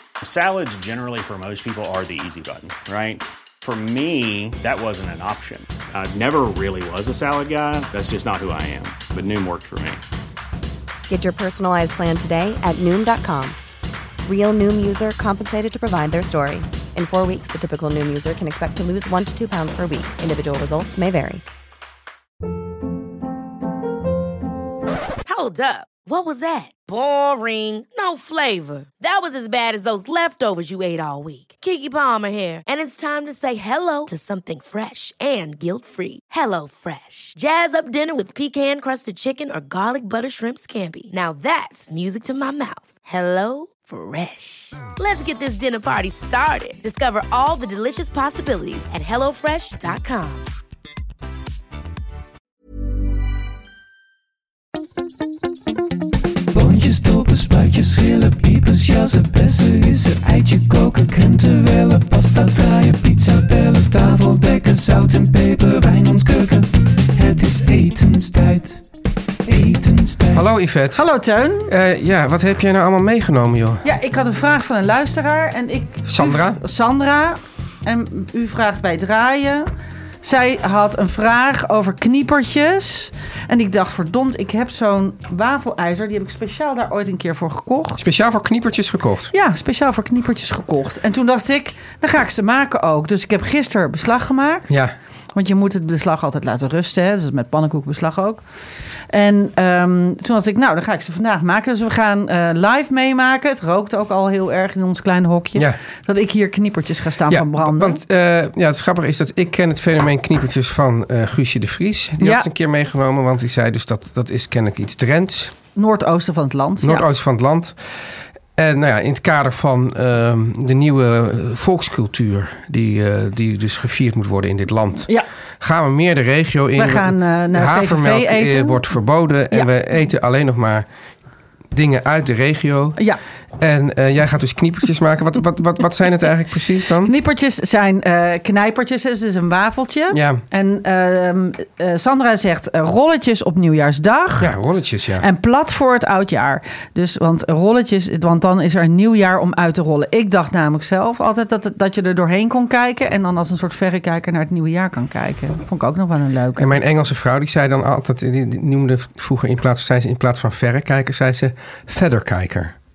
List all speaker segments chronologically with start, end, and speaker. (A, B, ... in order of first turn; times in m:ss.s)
0:00.2-0:10.0 A
0:11.1-0:13.6 B
0:14.2-0:21.4 B
0:25.2-0:50.5 C
0:56.5-1:06.4 D
1:07.2-1:08.3 D
1:10.3-1:11.0 E
1:10.9-1:11.7 F
1:11.6-1:13.8 E
1:13.8-1:19.7 F
1:16.0-1:16.6 E
1:20.2-1:28.0 F
1:28.0-1:29.3 E
1:29.3-1:34.8 F
1:34.7-1:34.9 E
1:35.3-1:38.4 F
1:39.1-1:48.0 F
1:47.3-1:55.5 E
1:52.2-1:52.4 F
1:55.7-1:57.0 F
1:56.8-1:57.8 E
1:58.6-2:10.9 E
2:06.8-2:08.8 F
2:11.7-2:13.0 E
2:13.6-2:17.1 E
2:17.0-2:24.5 F
2:20.1-2:20.4 E
2:24.4-2:25.2 E
2:25.2-2:36.8 F
2:36.6-2:42.7 E